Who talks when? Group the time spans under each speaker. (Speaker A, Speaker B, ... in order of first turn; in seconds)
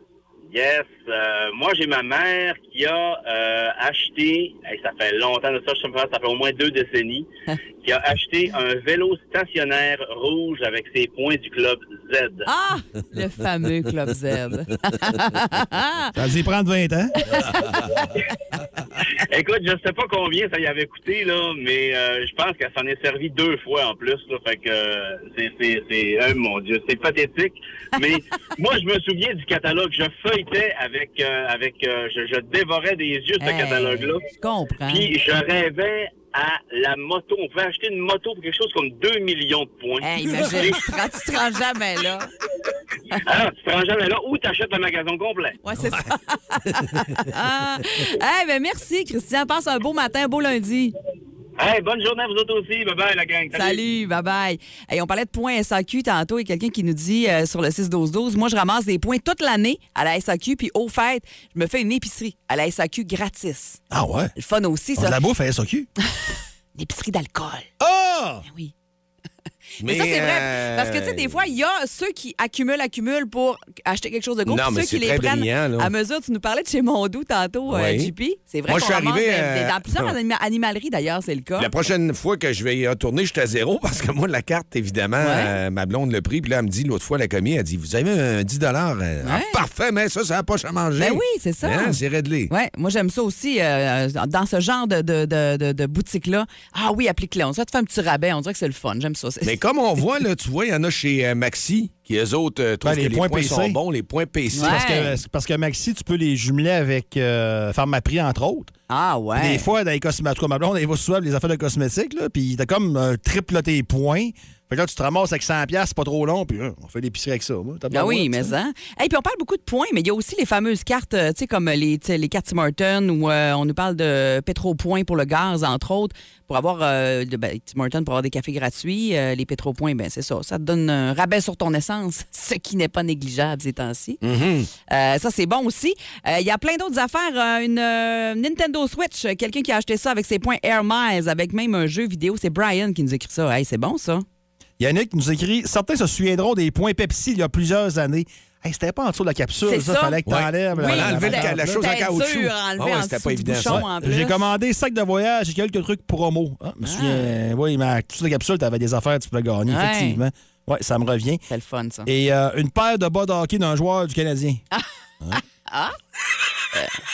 Speaker A: 0.5-7.3, 7.8-12.5, 19.3-34.2, 34.9-40.8, 43.3-45.6, 51.6-53.8
Speaker B: 12.5-16.1, 17.3-17.9, 33.4-35.1, 40.0-42.3, 45.6-50.9, 53.5-63.8, 64.4-65.2, 66.8-67.7, 68.5-68.7, 69.8-81.7, 85.2-85.5, 89.2-89.6, 91.0-99.6, 104.5-105.1, 108.9-109.7, 117.9-134.2, 134.9-144.2, 149.7-150.2, 150.7-154.4, 156.8-157.3, 159.7-160.2, 161.5-162.1, 165.7-166.0
Speaker C: 16.1-17.2, 63.9-64.3, 65.0-65.9, 67.8-68.5, 102.8-103.8, 104.6-108.7, 109.4-118.5, 144.8-151.8, 153.7-161.4, 162.1-164.6
Speaker D: 69.8-71.4, 74.5-75.9, 77.7-78.1, 78.7-80.1, 81.6-92.5, 99.4-105.1, 134.2-134.7, 150.3-153.8